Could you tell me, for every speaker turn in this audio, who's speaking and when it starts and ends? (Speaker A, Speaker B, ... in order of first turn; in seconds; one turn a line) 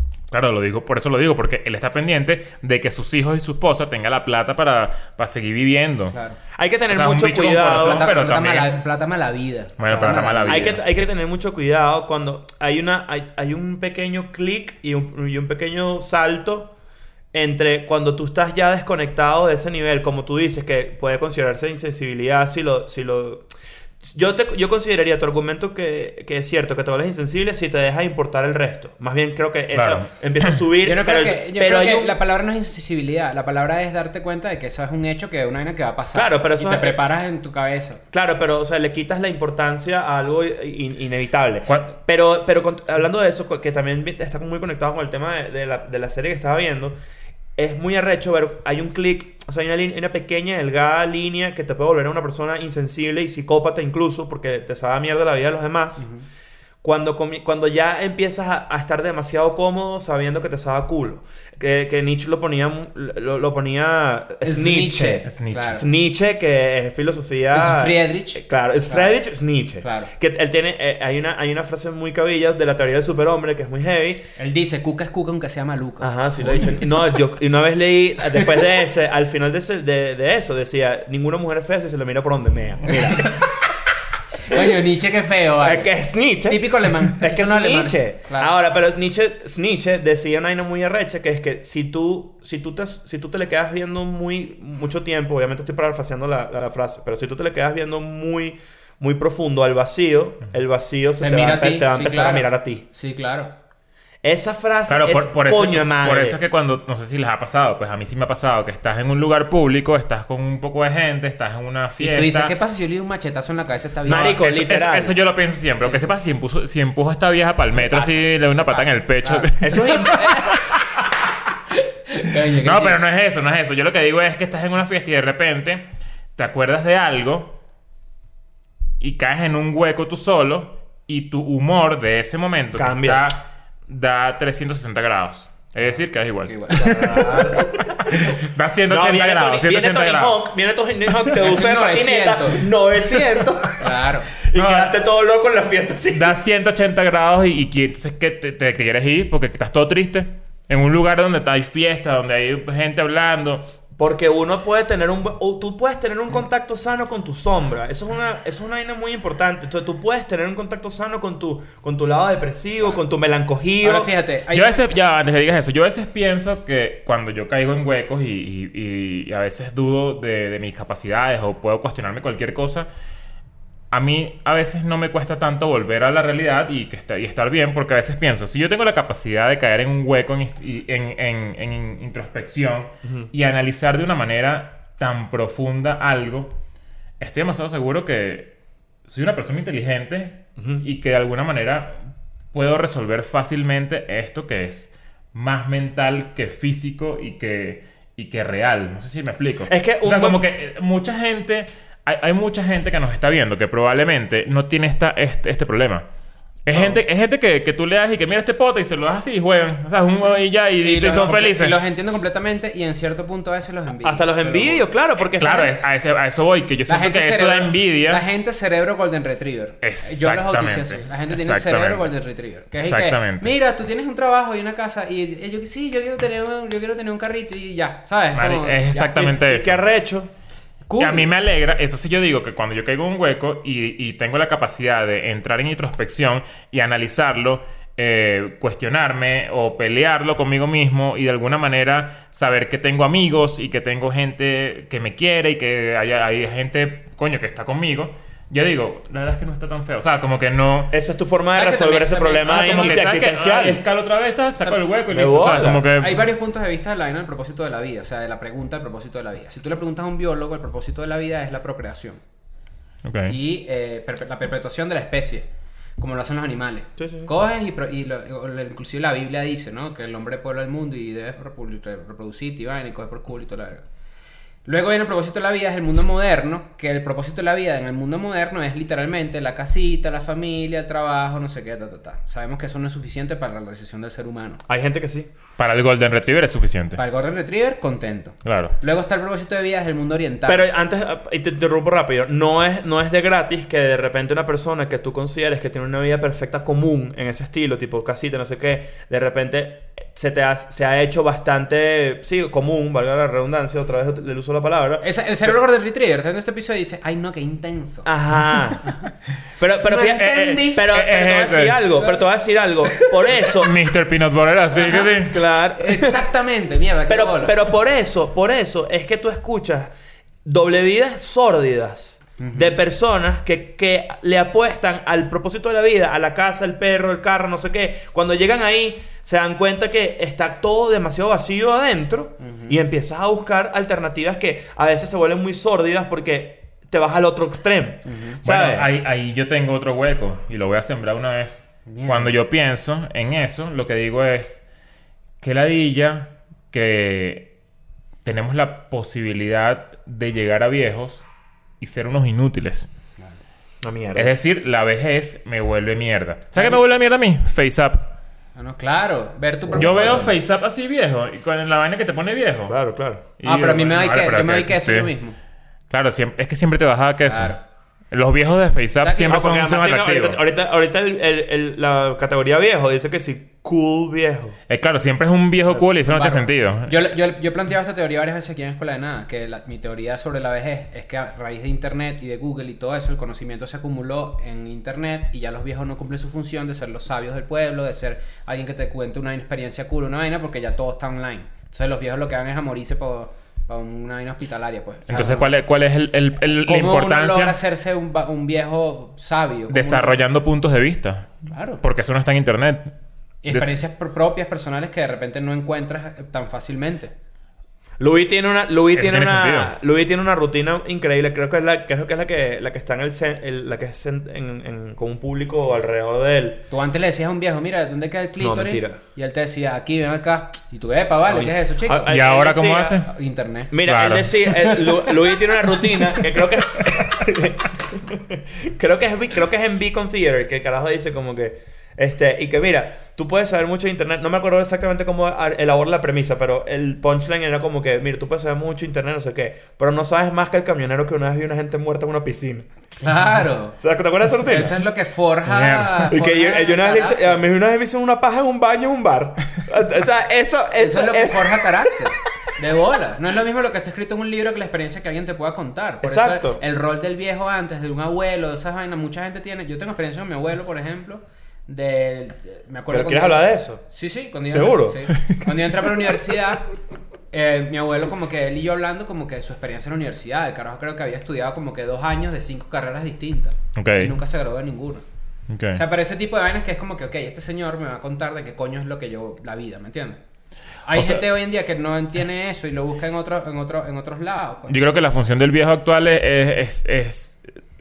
Speaker A: 0.3-6.2
Speaker B: 6.1-6.4
Speaker C: 6.5-8.1
Speaker A: 6.9-8.8
Speaker B: 7.8-10.8
Speaker A: 9.8-10.8
Speaker C: 9.9-16.7
Speaker C: 17.3-32.2
Speaker A: 29.7-30.6
Speaker B: 30.8-38.0
Speaker C: 36.1-37.0
Speaker C: 38.1-46.9
Speaker A: 41.7-41.9
Speaker C: 47.6-56.1
Speaker B: 56.0-56.2
Speaker C: 56.8-74.3
Speaker B: 64.4-65.9
Speaker A: 65.2-65.8
Speaker B: 67.5-69.2
Speaker B: 69.8-70.1
Speaker B: 74.4-76.8
Speaker C: 76.0-83.5
Speaker B: 83.1-83.5
Speaker B: 84.4-88.5
Speaker C: 85.6-102.8
Speaker B: 101.2-103.5
Speaker C: 104.2-106.4
Speaker A: 104.9-112.5
Speaker B: 112.0-114.4
Speaker C: 114.0-115.2
Speaker A: 114.2-121.0
Speaker B: 115.8-116.2
Speaker B: 117.7-120.1
Speaker C: 119.6-120.7
Speaker B: 121.7-123.0
Speaker A: 122.5-125.8
Speaker A: 126.4-127.5
Speaker A: 129.0-140.4
Speaker C: 132.7-133.3
Speaker B: 136.4-137.0
Speaker C: 136.7-143.9
Speaker B: 141.3-142.7
Speaker B: 143.8-144.3
Speaker C: 144.4-146.3
Speaker A: 144.5-144.9
Speaker A: 146.1-153.7
Speaker C: 154.0-164.1
Speaker B: 163.8-164.8
Speaker A: 164.5-172.9
Speaker A: 173.9-186.5
Speaker C: 183.0-183.3
Speaker A: 187.2-188.5
Speaker A: 189.1-192.0
Speaker C: 190.6-190.8
Speaker A: 192.5-206.1
Speaker C: 199.7-200.4
Speaker A: 206.6-211.7
Speaker C: 206.7-207.0
Speaker B: 210.8-214.8
Speaker C: 214.0-215.7
Speaker A: 215.4-218.2
Speaker B: 216.9-229.3
Speaker A: 219.8-222.1
Speaker A: 222.8-223.5
Speaker A: 228.3-229.8
Speaker C: 229.1-230.3
Speaker B: 230.9-231.3
Speaker A: 231.0-250.9
Speaker C: 250.9-253.8
Speaker B: 251.5-253.0
Speaker A: 252.5-256.2
Speaker C: 255.1-255.9
Speaker B: 255.9-262.2
Speaker A: 263.0-263.3
Speaker B: 263.3-265.4
Speaker B: 266.0-273.8
Speaker C: 267.0-267.3
Speaker B: 274.6-284.6
Speaker C: 284.7-285.3
Speaker A: 285.6-287.0
Speaker B: 287.0-290.7
Speaker A: 288.4-288.7
Speaker C: 290.4-305.5
Speaker B: 305.0-308.1
Speaker C: 308.0-308.9
Speaker C: 309.6-313.7
Speaker B: 309.9-310.8
Speaker A: 310.1-311.8
Speaker A: 313.4-315.4
Speaker C: 314.8-316.2
Speaker B: 314.8-315.1
Speaker B: 315.8-317.5
Speaker C: 317.1-319.9
Speaker C: 320.4-338.9
Speaker B: 322.4-322.7
Speaker B: 332.4-332.8
Speaker B: 338.0-338.4
Speaker A: 338.4-344.6
Speaker B: 341.9-342.4
Speaker A: 345.4-347.5
Speaker A: 348.2-351.2
Speaker A: 351.8-352.9
Speaker C: 353.8-354.4
Speaker A: 354.1-358.1
Speaker B: 358.5-360.3
Speaker C: 359.6-360.3
Speaker A: 359.8-365.1
Speaker C: 362.7-363.2
Speaker B: 363.4-365.4
Speaker A: 365.9-370.4
Speaker B: 367.2-367.6
Speaker B: 369.0-369.4
Speaker C: 369.3-374.6
Speaker A: 374.7-376.9
Speaker C: 375.7-376.3
Speaker B: 376.1-395.6
Speaker A: 395.1-397.6
Speaker B: 396.6-400.2
Speaker A: 399.7-402.9
Speaker B: 401.5-401.8
Speaker B: 403.4-407.1
Speaker C: 408.0-416.6
Speaker A: 408.9-409.7
Speaker B: 416.7-422.1
Speaker C: 418.4-419.0
Speaker C: 421.3-423.0
Speaker A: 422.1-423.1
Speaker B: 423.0-423.7
Speaker C: 423.7-442.7
Speaker A: 423.8-424.7
Speaker B: 443.0-443.8
Speaker C: 443.8-444.8
Speaker B: 444.4-447.4
Speaker A: 445.4-446.1
Speaker C: 446.1-451.9
Speaker B: 450.8-466.7
Speaker C: 456.0-456.6
Speaker C: 462.9-463.8
Speaker C: 464.5-465.1
Speaker A: 465.1-465.5
Speaker B: 467.3-475.0
Speaker A: 473.8-474.1
Speaker A: 475.5-475.8
Speaker B: 475.7-480.2
Speaker B: 480.9-484.8
Speaker A: 480.9-481.2
Speaker A: 484.7-487.4